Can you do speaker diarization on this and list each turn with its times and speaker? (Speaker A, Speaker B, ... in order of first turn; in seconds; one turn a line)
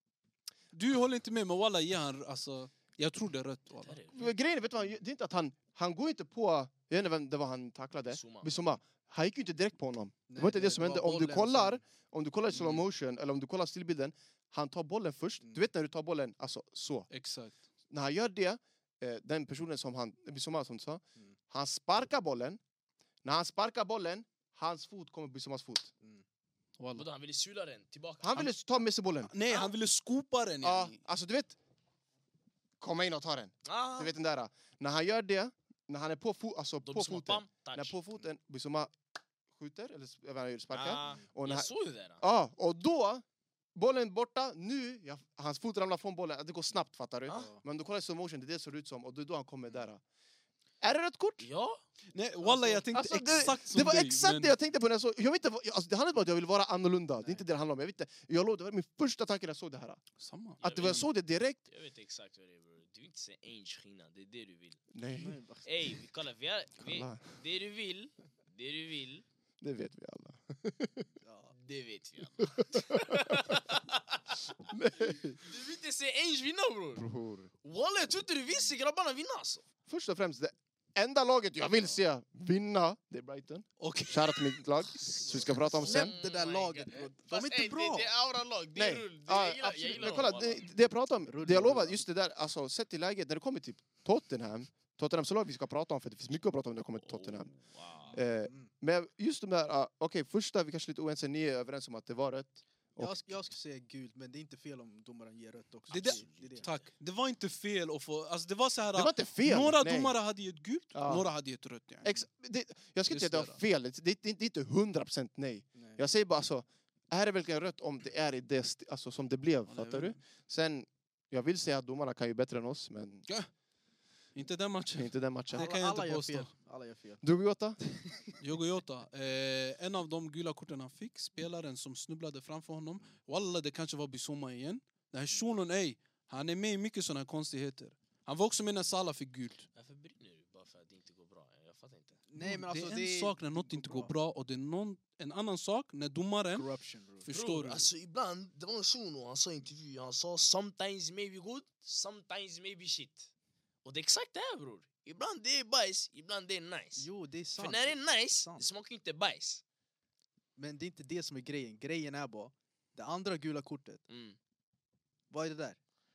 Speaker A: 0.7-4.0
Speaker B: 3.8-4.3
Speaker C: 4.1-17.1
Speaker B: 8.1-8.5
Speaker D: 10.3-11.8
Speaker A: 17.1-17.6
Speaker C: 17.9-22.6
Speaker C: 23.2-25.9
Speaker A: 26.8-27.1
Speaker B: 26.9-28.5
Speaker C: 28.2-29.3
Speaker A: 29.2-31.0
Speaker C: 30.6-31.6
Speaker C: 32.8-38.9
Speaker B: 33.6-34.1
Speaker B: 36.8-38.0
Speaker C: 39.5-43.2
Speaker B: 40.7-42.2
Speaker C: 43.7-50.0
Speaker D: 47.3-47.6
Speaker C: 50.8-51.5
Speaker B: 51.4-51.8
Speaker A: 52.1-54.5
Speaker D: 52.4-52.8
Speaker C: 52.9-60.0
Speaker D: 57.2-57.4
Speaker A: 60.2-60.6
Speaker C: 60.6-61.6
Speaker B: 60.6-61.1
Speaker B: 61.7-64.8
Speaker C: 64.9-65.4
Speaker D: 65.2-65.7
Speaker B: 65.6-69.2
Speaker C: 66.8-67.3
Speaker C: 69.6-71.1
Speaker D: 71.2-71.5
Speaker B: 71.5-74.4
Speaker C: 72.4-73.5
Speaker C: 74.7-75.4
Speaker B: 75.4-77.1
Speaker C: 77.0-77.5
Speaker B: 77.6-79.6
Speaker C: 79.9-86.1
Speaker A: 83.8-84.5
Speaker B: 85.0-90.6
Speaker D: 85.8-88.1
Speaker C: 88.7-97.5
Speaker D: 91.2-92.0
Speaker B: 97.0-98.2
Speaker D: 98.0-98.7
Speaker C: 98.1-103.3
Speaker D: 103.0-106.6
Speaker B: 105.9-106.9
Speaker A: 105.9-112.1
Speaker C: 108.9-110.2
Speaker C: 110.9-111.3
Speaker C: 112.0-123.2
Speaker A: 113.1-113.6
Speaker D: 115.7-116.0
Speaker A: 119.7-120.2
Speaker A: 124.3-126.5
Speaker C: 125.0-125.7
Speaker D: 125.5-127.2
Speaker C: 127.2-127.8
Speaker A: 128.4-139.7
Speaker B: 139.7-142.2
Speaker D: 142.3-144.1
Speaker A: 142.4-146.7
Speaker D: 146.5-147.3
Speaker A: 147.2-147.9
Speaker B: 147.3-153.3
Speaker B: 153.8-159.6
Speaker D: 157.0-158.6
Speaker D: 160.6-164.0
Speaker B: 164.1-164.4
Speaker D: 165.3-165.8